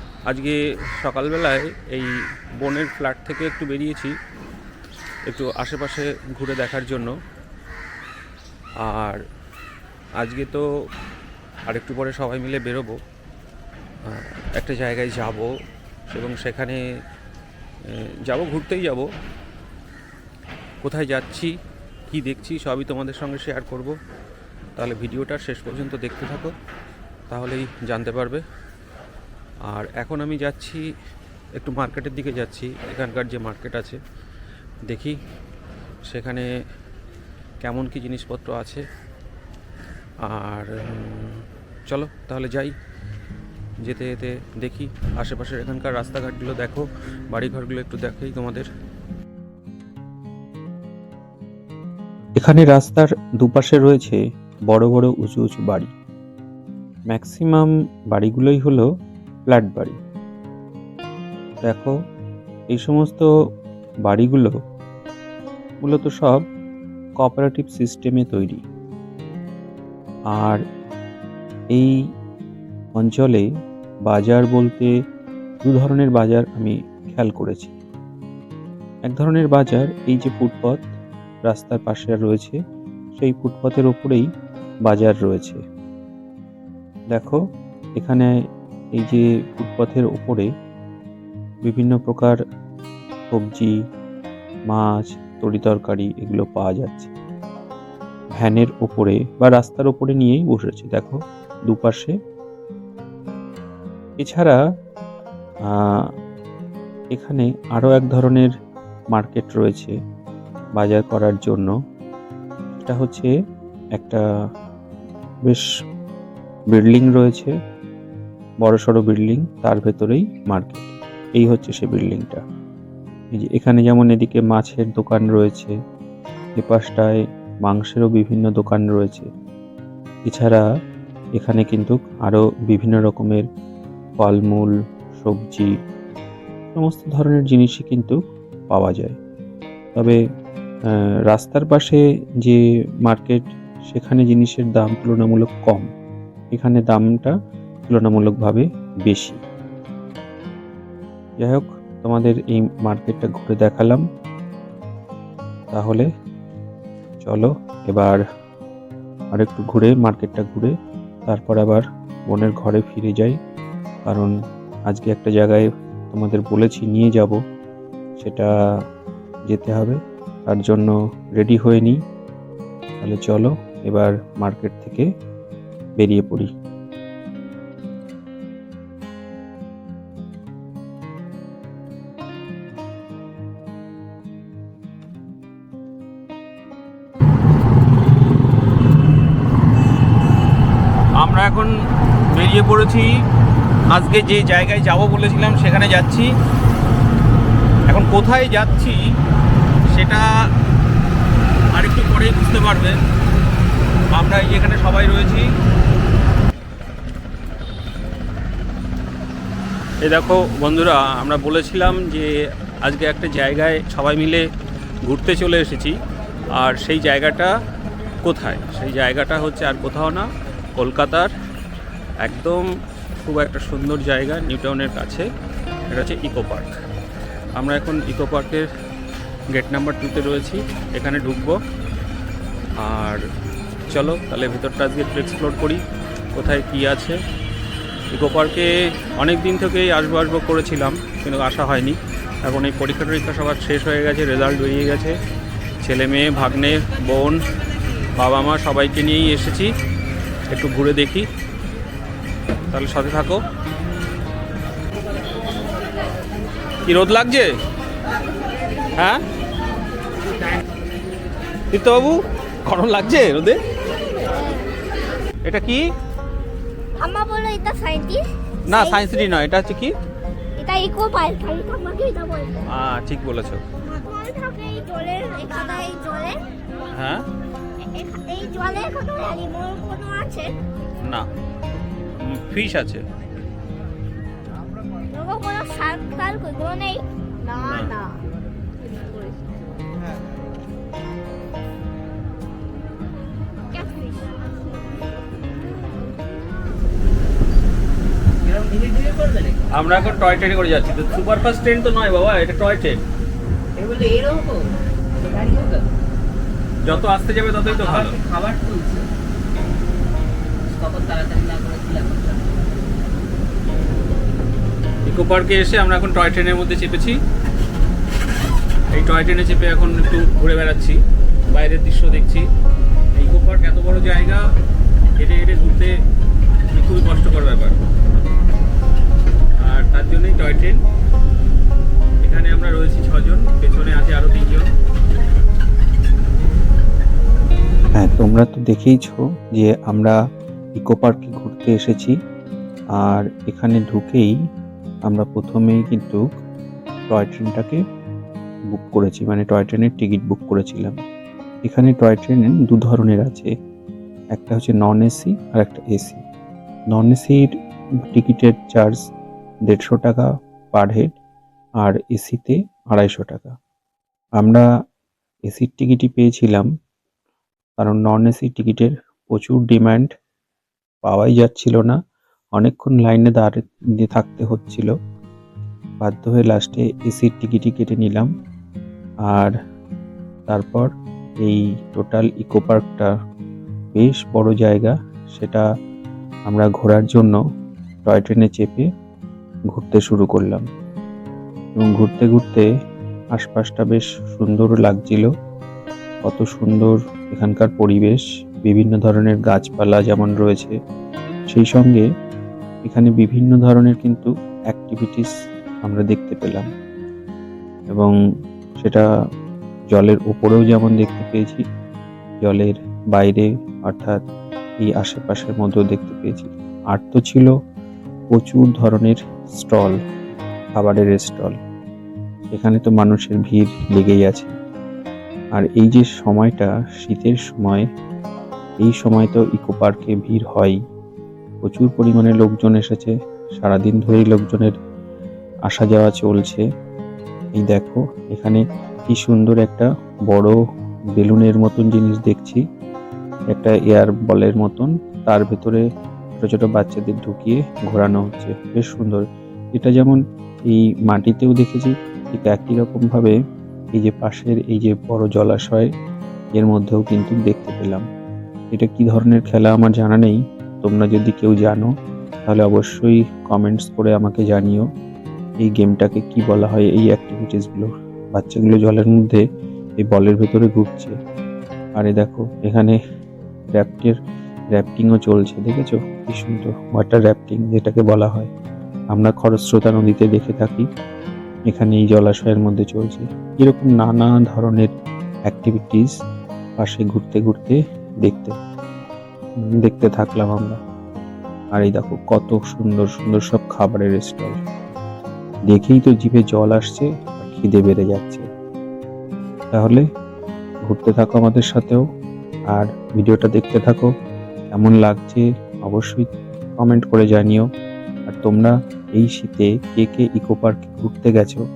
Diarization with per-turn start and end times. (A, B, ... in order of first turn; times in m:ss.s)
0:00.3-0:04.2 A
0:05.3-0:07.2 A
0:08.8-0:09.2 A
0:10.2-0:10.6 A
0:11.7-0:13.0 A
0:14.1-0:15.5 A
0:16.1-0:16.8 A
0:17.9-0:19.1 A
0:20.8-0:21.5 A
0:22.1-0:24.0 A
0:24.8-0:26.5 A
0:27.3-0:28.4 A
0:29.7-0:30.9 A
0:31.6-0:34.0 A
0:34.9-0:35.2 A
0:36.1-0:36.5 A
0:37.6-0:38.9 A
0:40.2-0:42.7 A
0:43.8-0:48.7 A
0:52.4-0:55.9 B
0:57.1-0:58.9 B
0:59.5-1:00.0 B
1:01.6-1:01.9 B
1:02.7-1:03.3 B
1:04.0-1:04.6 B
1:05.8-1:06.4 B
1:07.2-1:08.6 B
1:10.3-1:10.6 B
1:13.0-1:13.5 B
1:14.0-1:14.9 B
1:15.6-1:17.8 B
1:19.1-1:20.9 B
1:21.5-1:22.6 B
1:23.2-1:24.3 B
1:24.8-1:25.6 B
1:27.1-1:27.4 B
1:28.0-1:28.3 B
1:28.9-1:30.5 B
1:31.6-1:32.4 B
1:33.3-1:33.8 B
1:34.7-1:37.1 B
1:38.4-1:42.2 B
1:44.2-1:44.6 B
1:45.7-1:46.1 B
1:47.1-1:48.5 B
1:49.1-1:49.9 B
1:50.8-1:51.7 B
1:52.7-1:53.3 B
1:54.0-1:54.2 B
1:56.7-1:57.5 B
1:58.6-2:02.4 B
2:03.4-2:05.7 B
2:06.6-2:09.3 B
2:10.3-2:10.6 B
2:11.4-2:13.4 B
2:14.2-2:15.7 B
2:16.7-2:18.2 B
2:18.7-2:19.2 B
2:21.3-2:25.9 B
2:26.5-2:27.3 B
2:27.9-2:29.4 B
2:31.4-2:34.0 B
2:35.7-2:36.1 B
2:37.2-2:38.2 B
2:39.3-2:40.7 B
2:41.3-2:43.4 B
2:44.0-2:44.3 B
2:44.9-2:47.4 B
2:48.2-2:48.5 B
2:49.5-2:52.0 B
2:53.0-2:55.1 B
2:56.0-2:56.5 B
3:11.2-3:11.7 A
3:12.3-3:13.2 A
3:13.9-3:16.3 A
3:17.9-3:19.0 A
3:19.9-3:20.3 A
3:21.7-3:23.0 A
3:24.1-3:25.5 A
3:30.0-3:34.5 A
3:35.0-3:36.0 A
3:36.5-3:37.5 A
3:38.2-3:41.3 A
3:42.2-3:42.7 A
3:43.2-3:45.3 A
3:45.9-3:46.8 A
3:47.5-3:48.7 A
3:49.5-3:51.6 A
3:52.8-3:53.2 A
3:53.9-3:55.8 A
3:56.3-3:57.2 A
3:58.1-4:05.2 A
4:05.8-4:07.4 A
4:08.1-4:09.7 A
4:10.5-4:11.3 A
4:12.7-4:13.4 A
4:16.8-4:17.6 A
4:18.9-4:19.2 A
4:21.7-4:23.6 A
4:25.4-4:25.9 A
4:27.0-4:28.7 C
4:28.7-4:29.9 A
4:30.6-4:32.6 C
4:32.7-4:33.6 A
4:33.8-4:36.4 C
4:36.9-4:37.2 A
4:37.9-4:40.6 C
4:41.0-4:41.3 A
4:42.2-4:43.0 A
4:45.1-4:48.2 C
4:47.6-4:48.0 A
4:53.8-4:54.1 C
4:58.4-4:59.7 D
4:59.7-5:03.0 A
5:03.8-5:04.7 D
5:05.3-5:05.9 D
5:06.8-5:08.2 A
5:07.8-5:09.1 D
5:10.7-5:12.6 D
5:15.0-5:17.2 A
5:18.9-5:22.5 A
5:23.1-5:24.4 A
5:25.2-5:25.9 A
5:26.7-5:27.8 A
5:29.6-5:30.8 A
5:32.2-5:34.7 A
5:37.9-5:40.2 B
5:40.8-5:42.2 B
5:43.0-5:44.3 B
5:45.1-5:46.2 B
5:47.1-5:47.8 B
5:48.7-5:51.0 B
5:51.6-5:53.5 B
5:54.3-5:56.2 B
5:56.9-5:59.0 B
5:59.7-6:01.1 B
6:01.8-6:03.5 B
6:04.4-6:04.6 B
6:05.5-6:06.7 B
6:07.8-6:10.1 B
6:11.0-6:12.0 B
6:12.6-6:14.9 B
6:16.0-6:18.3 B
6:20.5-6:20.9 B
6:21.4-6:23.1 B
6:23.9-6:25.6 B
6:26.5-6:27.4 B
6:28.0-6:28.9 B
6:29.7-6:30.6 B
6:31.8-6:32.6 B
6:33.3-6:35.3 B
6:36.2-6:40.7 B
6:41.5-6:42.0 B
6:42.8-6:45.3 B
6:45.8-6:46.7 B
6:48.8-6:49.0 B
6:49.9-6:51.6 B
6:52.4-6:54.2 B
6:54.8-6:57.5 B
6:58.3-7:00.0 B
7:00.8-7:01.6 B
7:02.5-7:04.5 B
7:05.6-7:07.8 B
7:08.8-7:10.8 B
7:11.6-7:14.7 B
7:15.7-7:16.6 B
7:17.6-7:20.6 B
7:21.1-7:22.6 B
7:23.5-7:25.8 B
7:26.4-7:29.2 B
7:29.8-7:33.4 B
7:33.9-7:35.9 B
7:36.6-7:38.0 B
7:38.7-7:41.9 B
7:42.4-7:44.9 B
7:45.6-7:49.4 B
7:50.0-7:51.1 B
7:52.0-7:53.0 B
7:53.7-7:54.2 B
7:54.7-7:58.5 B
7:59.1-8:00.9 B
8:01.7-8:04.9 B
8:05.5-8:06.1 B
8:06.8-8:08.5 B
8:09.8-8:10.8 B
8:11.7-8:14.6 B
8:15.7-8:18.4 B
8:19.7-8:20.0 B
8:20.8-8:22.0 B
8:22.7-8:24.1 B
8:24.7-8:27.7 B
8:28.3-8:31.6 B